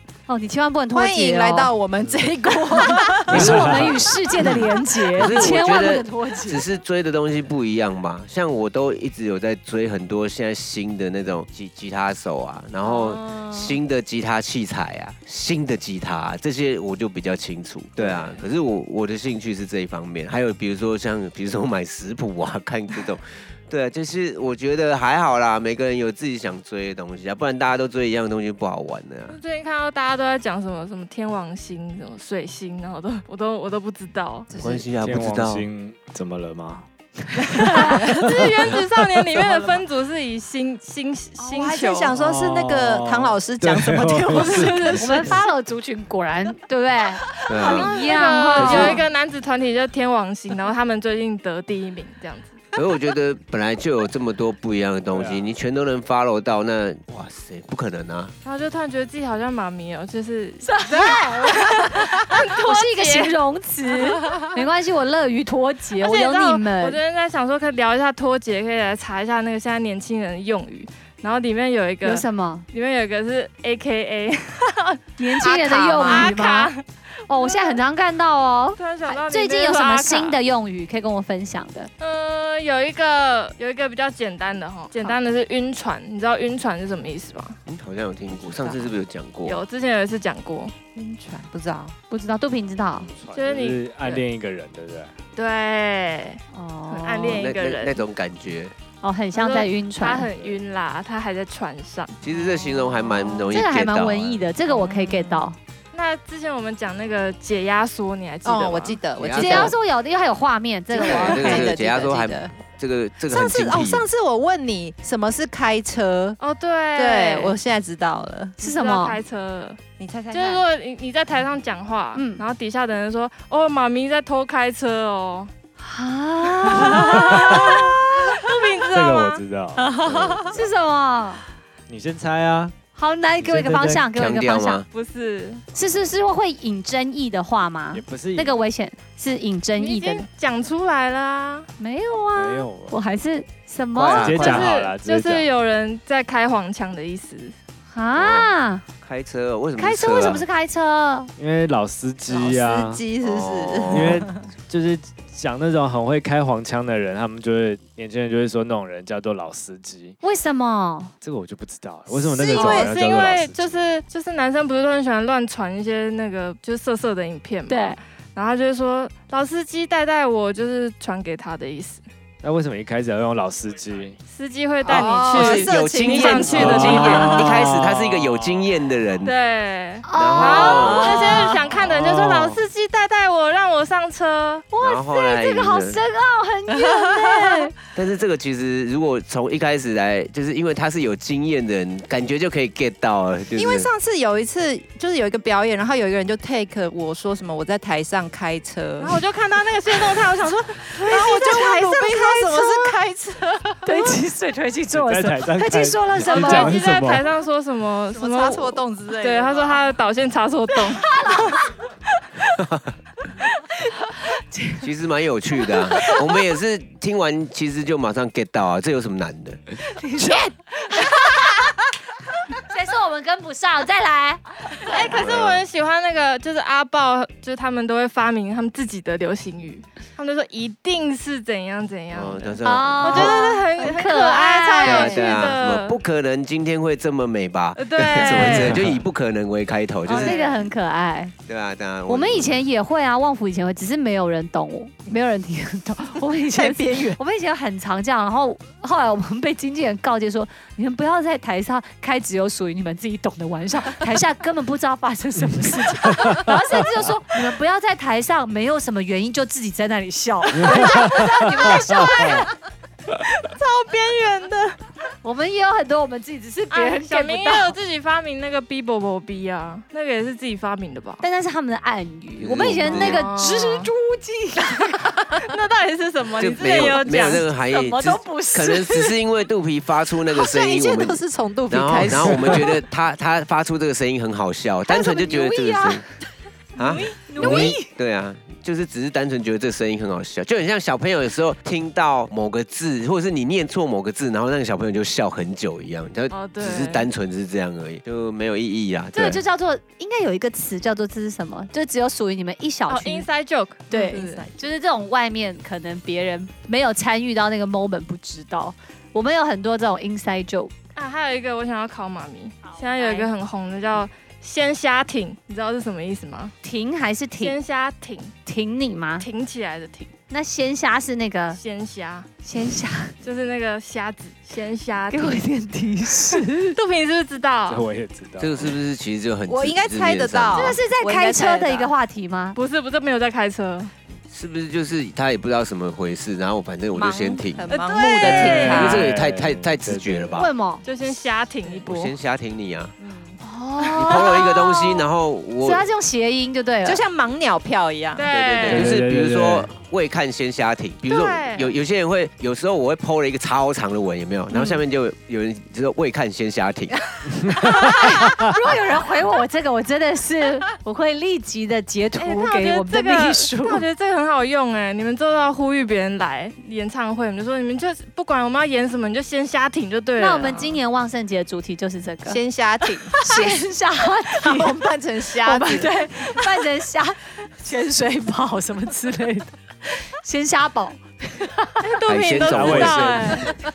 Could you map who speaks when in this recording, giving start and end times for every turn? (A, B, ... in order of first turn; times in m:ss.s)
0:00.3-0:01.7 A
0:00.9-0:03.4 B
0:02.5-0:06.6 A
0:03.3-0:04.5 C
0:03.3-0:04.0 D
0:05.1-0:29.4 C
0:12.8-0:13.7 E
0:18.0-0:18.4 E
0:29.3-0:34.5 E
0:34.5-0:34.8 B
0:34.5-0:35.6 C
0:35.0-0:36.9 D
0:37.5-0:39.4 D
0:37.5-0:42.1 E
0:37.7-0:38.0 A
0:41.4-0:45.3 B
0:42.1-0:45.2 D
0:44.3-0:45.4 E
0:45.0-0:49.0 A
0:47.5-0:47.9 C
0:47.6-0:52.6 E
0:48.5-0:49.0 C
0:52.7-0:58.3 C
0:55.1-0:55.5 D
0:58.4-1:03.4 E
1:00.6-1:07.0 A
1:00.9-1:01.3 B
1:06.0-1:15.0 E
1:12.0-1:12.6 A
1:15.2-1:16.7 A
1:15.4-1:16.3 B
1:16.0-1:17.8 E
1:17.3-1:21.9 A
1:18.8-1:20.4 E
1:22.0-1:27.6 E
1:27.7-1:29.6 C
1:28.5-1:28.9 B
1:29.4-1:30.7 E
1:30.9-1:32.0 B
1:32.1-1:33.1 A
1:33.1-1:35.1 D
1:33.3-1:34.2 E
1:35.4-1:38.0 E
1:36.5-1:37.5 A
1:37.3-1:38.7 C
1:39.0-1:40.3 A
1:39.3-1:42.2 E
1:42.2-1:44.4 C
1:43.5-1:45.6 A
1:44.7-1:49.0 E
1:48.4-1:49.8 B
1:49.2-1:49.7 C
1:49.3-1:51.7 A
1:50.9-1:52.5 B
1:51.0-1:54.0 C
1:53.3-1:56.4 B
1:56.4-1:57.6 E
1:56.9-1:58.6 B
1:58.6-1:59.2 A
1:58.6-1:59.8 E
2:00.0-2:00.6 B
2:00.3-2:05.5 E
2:02.1-2:02.4 A
2:05.8-2:08.4 A
2:06.6-2:09.4 E
2:07.1-2:07.7 D
2:08.9-2:10.7 D
2:09.8-2:10.5 B
2:10.5-2:11.4 A
2:11.9-2:12.8 D
2:13.0-2:14.8 A
2:13.4-2:14.1 D
2:14.1-2:14.8 C
2:14.9-2:15.6 E
2:15.7-2:20.2 A
2:17.9-2:18.5 D
2:19.8-2:21.7 E
2:21.8-2:24.6 A
2:22.4-2:23.0 D
2:23.9-2:24.7 C
2:24.1-2:25.5 D
2:24.3-2:27.6 E
2:27.9-2:28.8 A
2:28.1-2:30.4 C
2:29.8-2:31.3 A
2:31.4-2:33.0 D
2:32.3-2:34.4 B
2:33.2-2:34.2 C
2:33.9-2:40.2 D
2:40.2-2:41.1 A
2:41.2-2:44.0 D
2:42.1-2:42.9 B
2:42.5-2:52.0 E
2:47.7-2:48.0 A
2:52.4-2:54.2 D
2:54.3-2:57.5 E
2:54.8-2:57.3 B
2:55.3-2:59.3 C
2:56.5-2:58.7 D
2:59.2-3:04.7 E
3:00.0-3:01.6 A
3:00.1-3:01.2 C
3:00.7-3:01.5 B
3:01.7-3:02.6 D
3:04.7-3:07.7 A
3:04.8-3:06.0 C
3:07.9-3:13.9 C
3:13.5-3:19.2 B
3:19.0-3:22.4 E
3:19.9-3:23.8 B
3:22.6-3:22.9 A
3:23.8-3:26.8 A
3:24.9-3:27.2 D
3:26.2-3:31.6 E
3:28.1-3:29.9 B
3:31.1-3:31.6 A
3:32.6-3:32.9 C
3:34.8-3:39.7 C
3:40.0-3:41.6 A
3:42.6-3:45.1 A
3:44.8-3:56.0 E
3:45.1-3:45.6 C
3:52.1-3:53.4 C
3:52.6-3:55.3 A
3:54.8-4:00.4 C
3:54.9-3:55.2 B
3:57.8-3:58.8 E
3:58.4-3:59.0 D
4:00.1-4:01.3 A
4:00.1-4:00.6 E
4:01.5-4:02.6 C
4:02.1-4:22.5 A
4:06.5-4:07.2 B
4:20.6-4:22.4 D
4:23.2-4:24.8 E
4:25.2-4:27.8 A
4:26.7-4:31.2 E
4:31.2-4:35.1 A
4:32.4-4:33.2 C
4:32.9-4:33.9 E
4:34.8-4:37.5 E
4:36.4-4:46.0 C
4:37.6-4:39.2 A
4:40.3-4:42.7 B
4:44.9-4:46.0 A
4:46.8-4:59.4 C
4:46.9-4:47.9 A
4:47.4-4:47.8 B
4:56.3-4:57.1 E
4:59.1-5:03.3 A
5:02.9-5:04.5 E
5:03.9-5:10.7 A
5:11.0-5:16.5 E
5:12.8-5:13.3 A
5:16.6-5:17.6 A
5:17.4-5:18.3 E
5:18.4-5:19.3 A
5:19.2-5:20.1 E
5:20.3-5:21.6 A
5:21.6-5:22.3 E
5:22.4-5:23.1 A
5:23.2-5:25.4 E
5:25.1-5:26.8 A
5:26.3-5:27.8 E
5:27.7-5:28.8 D
5:28.4-5:30.8 C
5:29.5-5:31.9 B
5:30.5-5:32.6 A
5:32.5-5:33.9 E
5:34.3-5:37.7 C
5:36.9-5:39.1 B
5:37.7-5:39.0 E
5:38.2-5:40.4 D
5:38.6-5:40.5 C
5:40.3-5:40.8 A
5:40.8-5:42.1 E
5:41.7-5:42.9 C
5:43.0-5:44.3 E
5:43.4-5:44.6 A
5:44.0-5:45.9 C
5:45.6-5:47.0 A
5:46.8-5:48.3 B
5:48.1-5:48.9 E
5:48.3-5:57.0 C
5:48.6-5:49.7 D
5:51.0-5:51.7 E
5:57.4-5:58.5 D
5:57.6-6:03.8 A
6:02.2-6:10.8 E
6:10.2-6:12.4 A
6:12.2-6:13.3 B
6:13.2-6:21.9 A
6:14.4-6:16.0 B
6:21.8-6:23.5 E
6:22.0-6:23.3 C
6:22.4-6:23.5 D